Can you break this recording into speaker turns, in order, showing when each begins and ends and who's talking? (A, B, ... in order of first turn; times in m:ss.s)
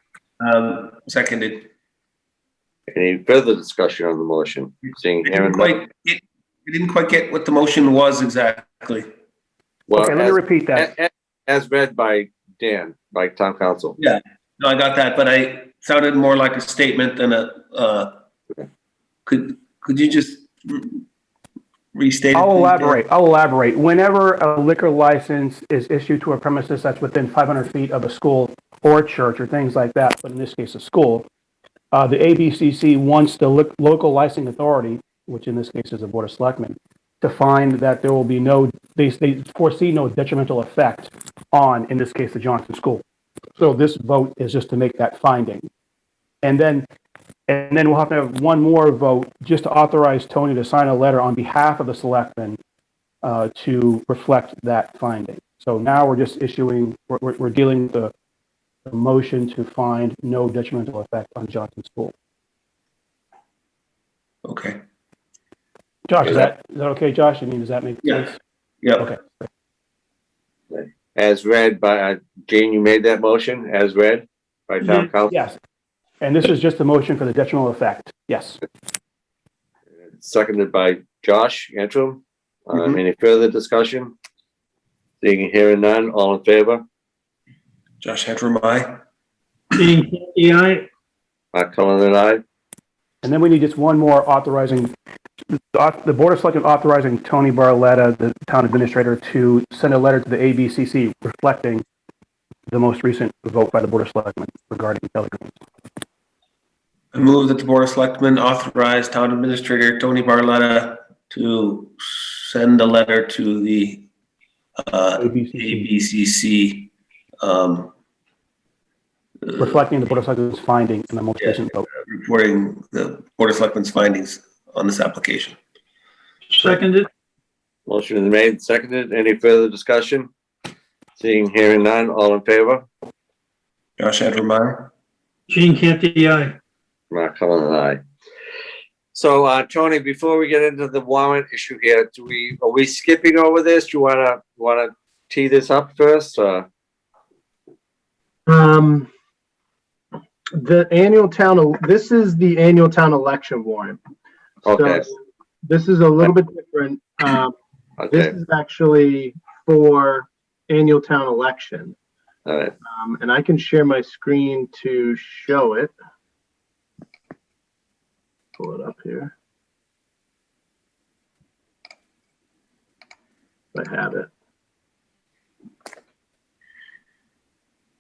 0:00.4-0:01.7 A
0:02.9-0:05.8 B
0:05.2-0:09.1 A
0:09.9-0:14.0 B
0:10.0-0:10.9 C
0:14.0-0:18.2 A
0:19.3-0:21.0 A
0:22.0-0:23.0 A
0:22.3-0:31.3 C
0:31.9-0:43.0 C
0:43.6-0:45.7 C
0:46.4-0:46.9 C
0:47.5-0:52.6 C
0:53.2-0:58.1 C
0:58.9-1:02.1 C
1:04.4-1:04.8 A
1:06.1-1:08.4 C
1:08.8-1:09.1 A
1:09.0-1:09.5 C
1:10.7-1:15.4 B
1:15.3-1:15.6 C
1:16.2-1:18.6 C
1:20.2-1:24.1 B
1:22.7-1:23.0 A
1:25.2-1:26.8 B
1:28.0-1:29.0 A
1:29.7-1:30.9 D
1:31.5-1:32.4 B
1:33.2-1:34.9 C
1:35.6-1:41.8 C
1:42.7-1:45.5 C
1:47.1-1:54.0 A
1:54.8-1:57.9 A
1:55.2-1:55.9 C
1:59.6-2:01.9 C
2:02.1-2:05.6 A
2:06.5-2:07.1 D
2:07.9-2:10.3 B
2:11.2-2:12.8 B
2:14.0-2:14.9 A
2:15.5-2:16.6 D
2:17.1-2:18.0 B
2:19.1-2:26.6 B
2:28.5-2:29.1 E
2:30.6-2:34.0 E
2:34.6-2:35.1 B
2:34.7-2:37.5 E
2:38.0-2:38.3 B
2:38.1-2:42.0 E
2:42.5-2:42.8 B
2:42.9-2:45.9 E
2:48.6-2:49.3 E
2:53.7-2:54.3 E